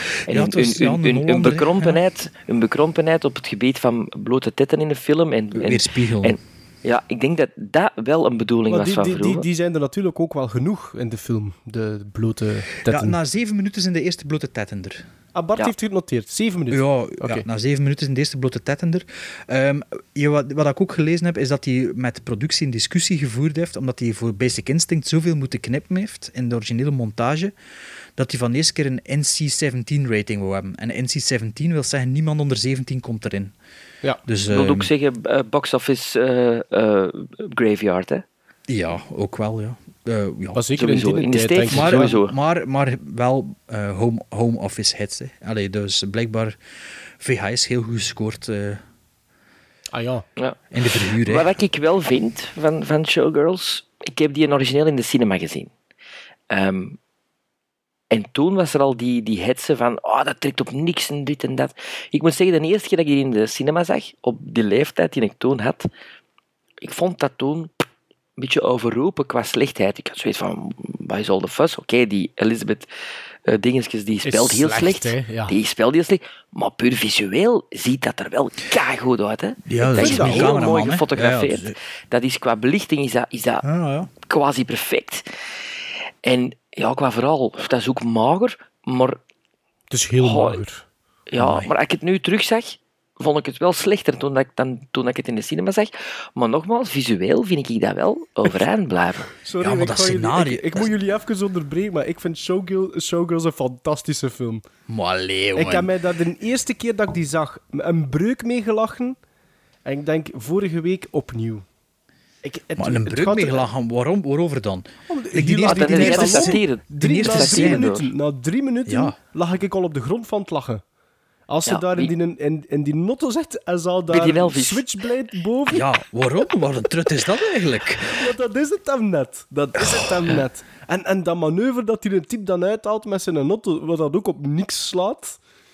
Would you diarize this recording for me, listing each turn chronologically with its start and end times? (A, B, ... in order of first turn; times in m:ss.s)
0:00.3-0:09.4 A
0:00.3-0:02.0 B
0:05.6-0:06.4 B
0:08.7-0:13.1 C
0:12.9-0:15.0 B
0:15.3-0:17.4 C
0:16.7-0:27.5 B
0:28.2-0:33.5 B
0:34.2-0:34.9 B
0:34.5-0:38.2 A
0:38.7-0:40.6 B
0:40.5-0:42.1 C
0:40.8-0:42.3 A
0:41.7-0:46.6 B
0:47.2-0:48.8 B
0:49.9-0:50.2 C
0:50.7-0:51.5 B
0:51.2-0:55.7 A
0:56.5-0:57.0 A
0:58.1-1:05.9 A
1:06.8-1:07.7 A
1:08.4-1:12.9 A
1:13.4-1:23.6 A
1:14.2-1:15.5 C
1:19.6-1:21.7 B
1:19.9-1:20.8 C
1:23.6-1:24.1 B
1:24.2-1:25.2 A
1:26.2-1:29.2 A
1:29.9-1:30.8 C
1:30.2-1:30.6 A
1:31.3-1:39.3 A
1:31.4-1:31.7 B
1:39.4-1:44.6 C
1:39.6-1:40.9 B
1:44.9-1:45.9 B
1:45.6-1:49.2 C
1:49.8-1:51.6 C
1:52.4-1:53.7 C
1:52.8-1:57.9 B
1:55.1-2:00.8 C
1:55.7-1:58.1 A
1:58.8-1:59.1 B
2:01.5-2:05.8 C
2:01.7-2:02.1 A
2:04.1-2:04.8 A
2:05.7-2:08.2 B
2:08.1-2:15.4 C
2:09.8-2:10.4 B